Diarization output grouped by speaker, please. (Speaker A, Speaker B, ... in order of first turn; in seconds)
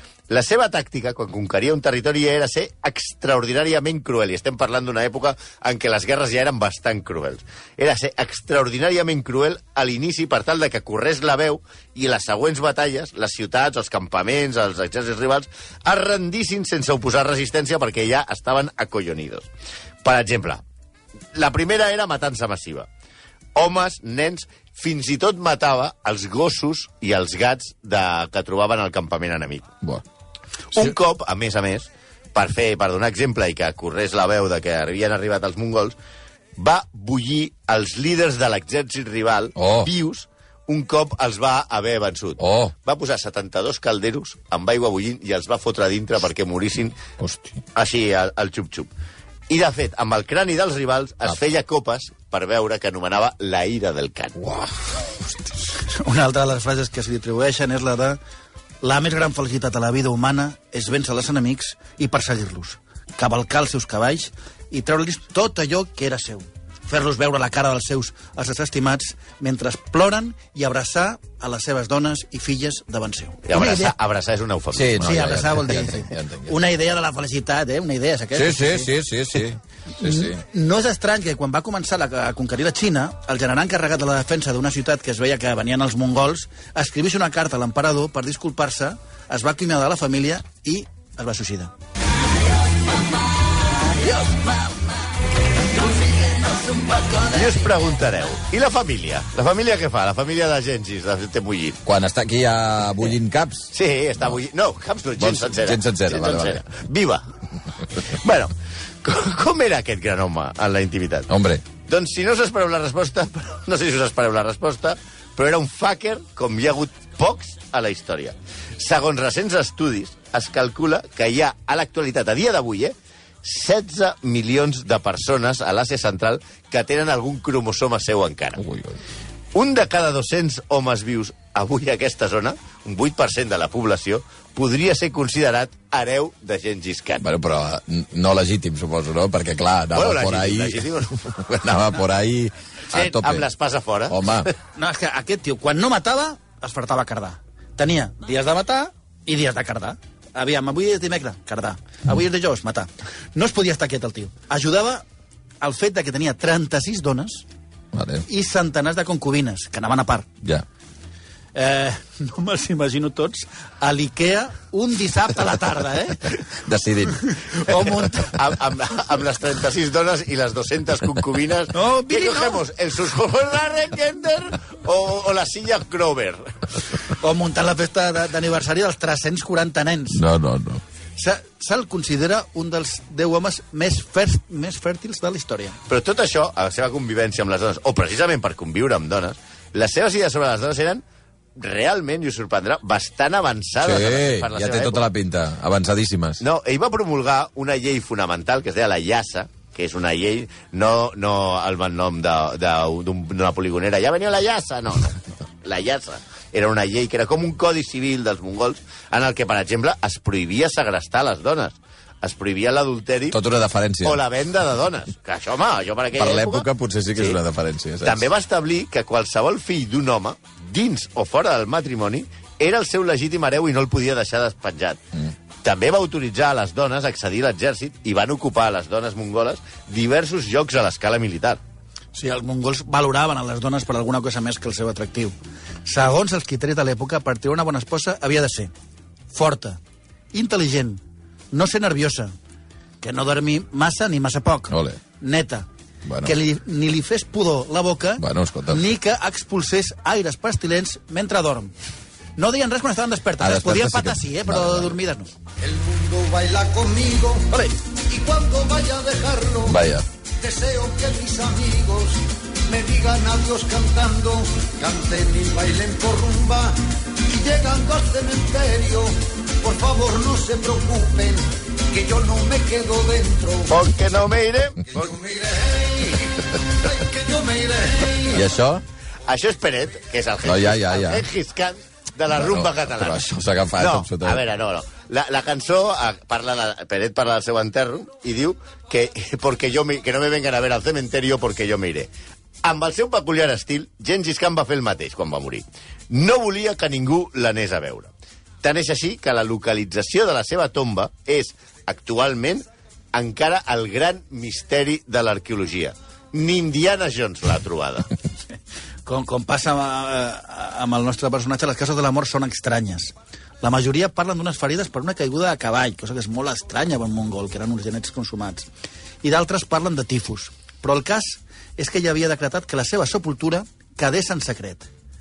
Speaker A: 0.3-19.5, 20.0-20.6, 21.3-22.9, 23.6-29.7, 30.7-36.0, 36.6-47.0, 47.8-48.9, 49.5-54.4, 73.5-75.2, 97.2-101.8, 103.7-107.2, 108.0-108.5, 109.0-111.3, 111.8-128.6, 129.5-137.2, 139.9-141.2, 142.9-144.5, 168.3-176.6, 185.9-191.0, 191.6-195.0, 196.4-213.4, 214.0-217.4, 218.0-225.0, 225.6-231.6, 273.7-274.9, 279.3-283.2, 283.8-292.1, 292.6-298.1, 298.6-308.1
Speaker B: 39.6-39.9, 42.4-42.7, 47.2-47.6, 54.4-54.7, 74.7-76.5, 78.3-80.4, 101.8-103.7, 105.2-106.6, 111.3-111.7, 128.6-129.0, 137.2-143.5, 144.1-144.5, 157.9-158.2, 166.5-168.0, 180.1-180.8, 193.8-196.4, 213.3-214.2, 216.2-218.3, 244.7-245.0, 246.1-246.3, 248.2-248.8, 253.4-255.0, 259.6-260.1, 278.3-278.8, 280.4-281.3, 282.3-284.4
Speaker C: 55.9-58.2, 58.8-74.0, 75.0-78.9, 80.0-91.7, 93.9-94.7, 96.0-97.3, 144.8-155.1, 155.6-157.5, 158.3-160.3, 161.6-166.4, 167.3-168.3, 171.7-172.6, 177.2-180.2, 181.2-185.8, 232.2-238.7, 239.3-239.8, 240.3-242.3, 243.0-245.7, 246.2-251.7, 252.4-255.3, 309.1-318.7, 319.2-324.9
Speaker D: 255.6-257.6, 258.1-259.8, 260.4-273.8, 274.9-278.5